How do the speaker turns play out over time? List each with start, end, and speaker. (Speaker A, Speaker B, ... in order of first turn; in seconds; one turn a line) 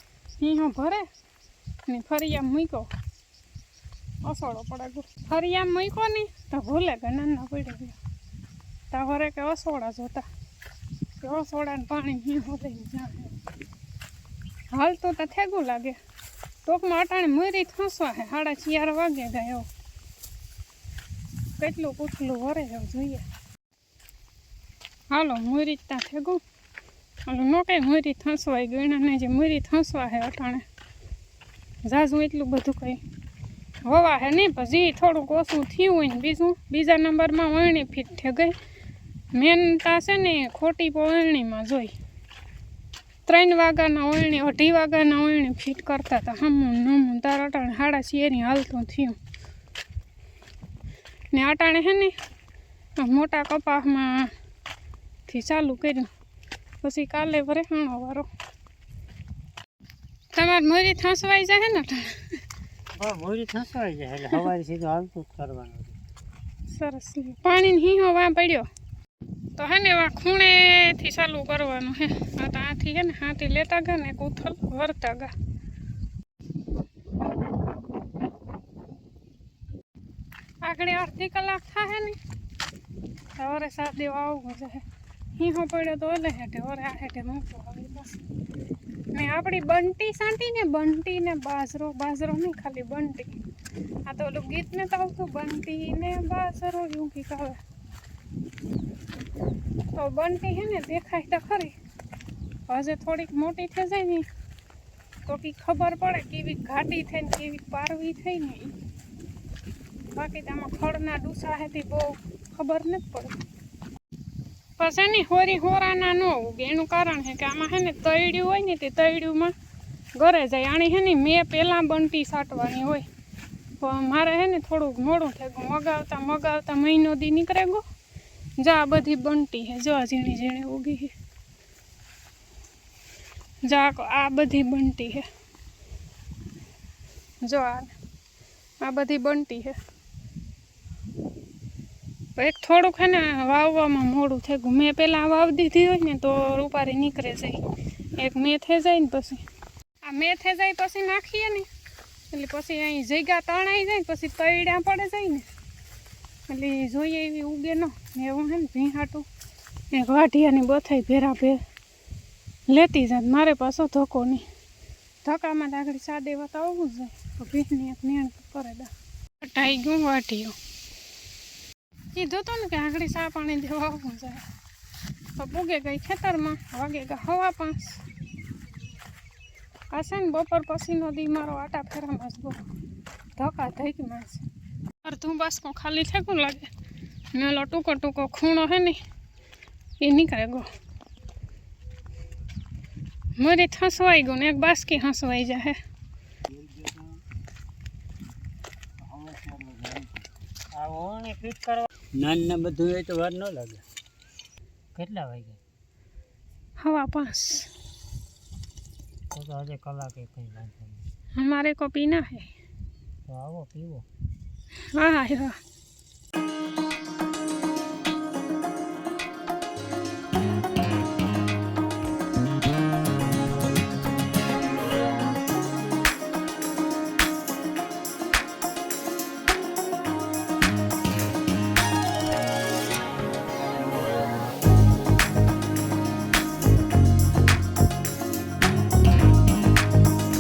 Speaker A: 0.4-1.1
Speaker A: 1.9-2.9
Speaker A: 4.2-8.0
Speaker A: 8.9-10.3
Speaker A: 11.2-13.3
Speaker A: 14.7-16.0
Speaker A: 16.6-19.7
Speaker A: 21.6-23.2
Speaker A: 25.1-26.4
Speaker A: 27.3-30.6
Speaker A: 31.9-33.0
Speaker A: 33.9-38.5
Speaker A: 39.3-41.9
Speaker A: 43.3-49.2
Speaker A: 51.3-52.1
Speaker A: 53.0-54.3
Speaker A: 55.3-56.1
Speaker A: 56.8-58.3
Speaker A: 60.3-62.4
Speaker B: 63.0-66.0
Speaker A: 66.7-68.7
Speaker A: 69.6-75.3
Speaker A: 80.7-82.2
Speaker A: 83.4-84.8
Speaker A: 85.4-88.2
Speaker A: 89.1-93.3
Speaker A: 94.1-97.6
Speaker A: 99.9-101.7
Speaker A: 102.7-104.3
Speaker A: 105.2-108.7
Speaker A: 110.1-113.3
Speaker A: 114.8-119.5
Speaker A: 120.2-123.0
Speaker A: 123.8-127.8
Speaker A: 128.6-131.1
Speaker A: 133.7-135.2
Speaker A: 137.4-137.9
Speaker A: 138.8-139.8
Speaker A: 142.4-147.6
Speaker A: 148.2-149.4
Speaker A: 150.1-151.7
Speaker A: 152.3-155.5
Speaker A: 156.5-159.3
Speaker A: 159.9-161.6
Speaker A: 162.7-164.4
Speaker A: 165.2-168.9
Speaker A: 169.4-170.6
Speaker A: 172.1-174.4
Speaker A: 175.4-178.0
Speaker A: 179.9-182.6
Speaker A: 183.4-184.4
Speaker A: 185.0-186.7
Speaker A: 187.3-189.0
Speaker A: 190.0-190.7
Speaker A: 193.4-195.8
Speaker C: 196.5-197.2
Speaker C: 199.0-200.3
Speaker B: 200.7-201.9
Speaker C: 202.2-203.8
Speaker B: 204.9-205.6
Speaker A: 206.8-207.7
Speaker B: 209.3-211.0
Speaker A: 211.4-212.5
Speaker B: 213.3-214.1
Speaker A: 214.9-215.6